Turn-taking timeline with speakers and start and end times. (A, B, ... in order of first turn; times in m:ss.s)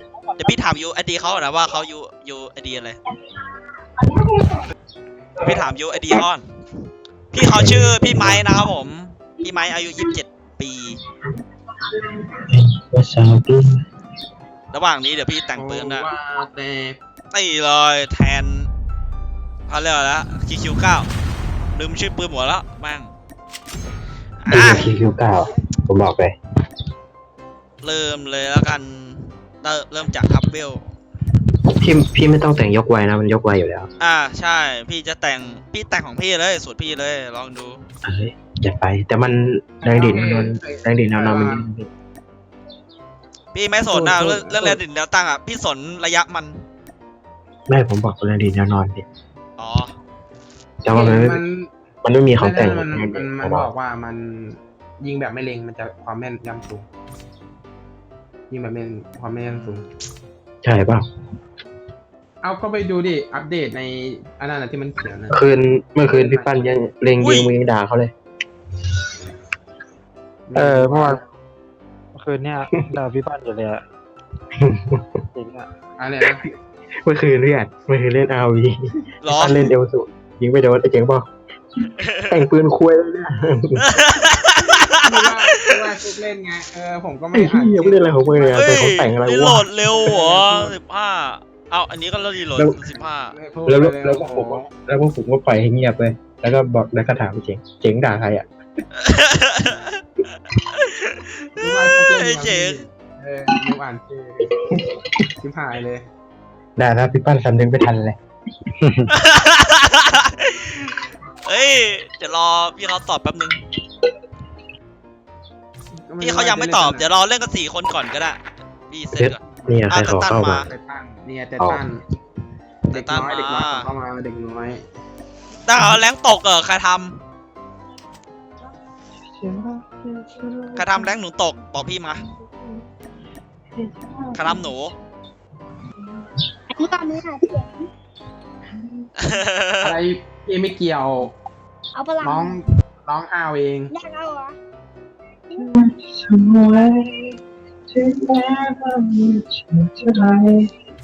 0:00.4-0:03.0 A
0:04.1-0:04.6 B
0:05.4-0:06.4 A
0:07.3-0:11.0 A
0:07.4-0:08.5 B
0:12.0-0:13.8 B
0:14.7-0:16.1 A
0:15.5-0:17.0 C
0:17.3-0:18.7 A
0:19.7-0:21.1 A
0:21.7-0:23.1 A
0:24.4-0:24.9 A
0:24.5-0:26.3 B
0:27.8-0:30.8 A
0:31.8-0:33.9 B
0:34.0-0:37.8 A
0:38.0-0:41.9 B
0:39.8-0:41.6 C
0:43.5-0:46.6 A
0:43.9-0:44.8 C
0:47.7-0:49.0 B
0:49.6-0:49.9 A
0:50.8-0:51.4 B
0:50.9-0:51.7 C
0:52.0-0:53.7 B
0:52.4-0:56.8 C
0:58.5-0:59.8 C
0:59.4-0:59.9 A
1:00.6-1:01.0 B
1:02.4-1:05.4 C
1:05.3-1:08.1 B
1:06.0-1:06.6 C
1:07.2-1:07.5 A
1:10.5-1:11.2 C
1:10.5-1:11.2 B
1:12.2-1:13.8 D
1:14.6-1:15.0 B
1:15.4-1:15.7 D
1:16.0-1:16.4 C
1:17.0-1:21.3 B
1:19.2-1:19.7 A
1:22.0-1:22.4 A
1:22.3-1:23.8 B
1:23.8-1:25.6 A
1:25.0-1:29.0 C
1:27.3-1:29.7 B
1:28.5-1:33.4 A
1:29.9-1:30.8 C
1:33.3-1:34.7 C
1:33.6-1:38.5 B
1:39.0-1:42.8 A
1:41.6-1:44.5 C
1:44.6-1:45.0 B
1:45.4-1:46.0 C
1:46.8-1:48.2 B
1:48.8-1:49.1 B
1:49.1-1:53.6 A
1:56.0-1:57.1 C
1:56.2-2:00.7 A
1:59.1-2:00.7 B
2:00.6-2:02.0 C
2:01.6-2:01.8 B
2:02.8-2:03.9 A
2:02.9-2:04.8 C
2:05.6-2:07.2 A
2:09.4-2:11.1 B
2:10.7-2:12.2 A
2:13.8-2:14.6 B
2:14.3-2:14.9 A
2:16.7-2:17.7 E
2:19.2-2:20.0 A
2:19.8-2:21.3 C
2:21.9-2:22.5 E
2:22.2-2:23.9 C
2:23.9-2:24.6 E
2:25.6-2:27.3 B
2:27.9-2:30.7 B